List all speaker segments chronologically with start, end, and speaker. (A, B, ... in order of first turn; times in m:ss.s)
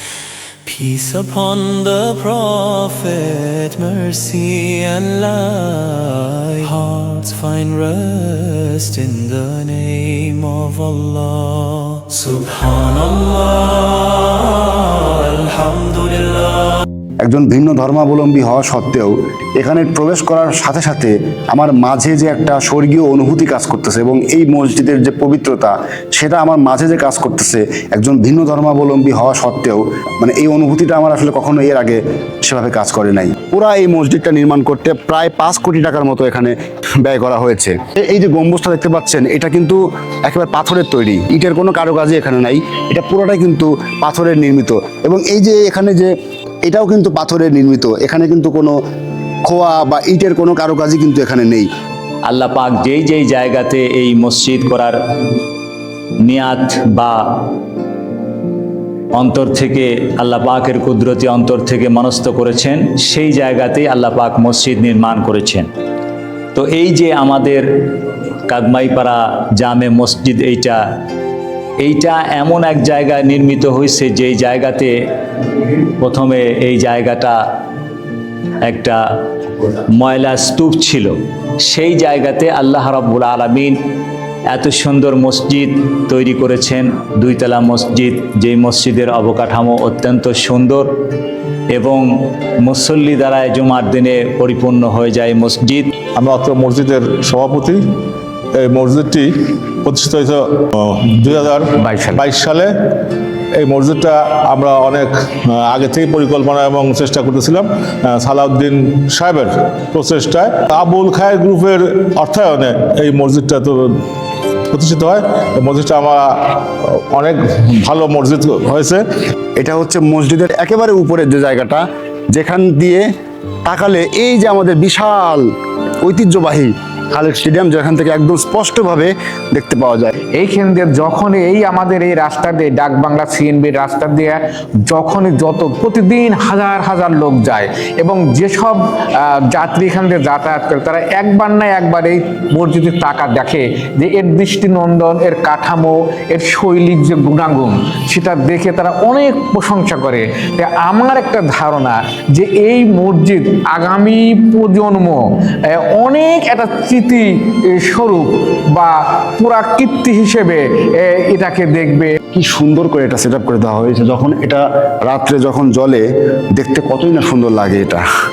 0:00.6-0:16.8 A
0:17.2-0:46.1 B
0:46.6-0:48.7 B
0:49.4-0:51.7 B
0:52.2-0:55.0 C
0:56.2-0:57.2 C
0:59.1-1:05.7 C
1:06.5-1:07.6 C
1:08.5-1:10.8 C
1:11.8-1:14.9 C
1:15.7-1:17.4 C
1:18.6-1:19.0 C
1:19.9-1:23.8 C
1:24.5-1:30.8 C
1:31.7-1:35.9 C
1:36.2-1:37.8 D
1:38.6-1:53.9 D
1:41.8-1:42.2 E
1:54.7-1:59.0 D
1:59.6-2:03.0 B
2:03.6-2:05.4 B
2:06.0-2:10.1 B
2:10.3-2:42.2 E
2:42.3-2:48.0 B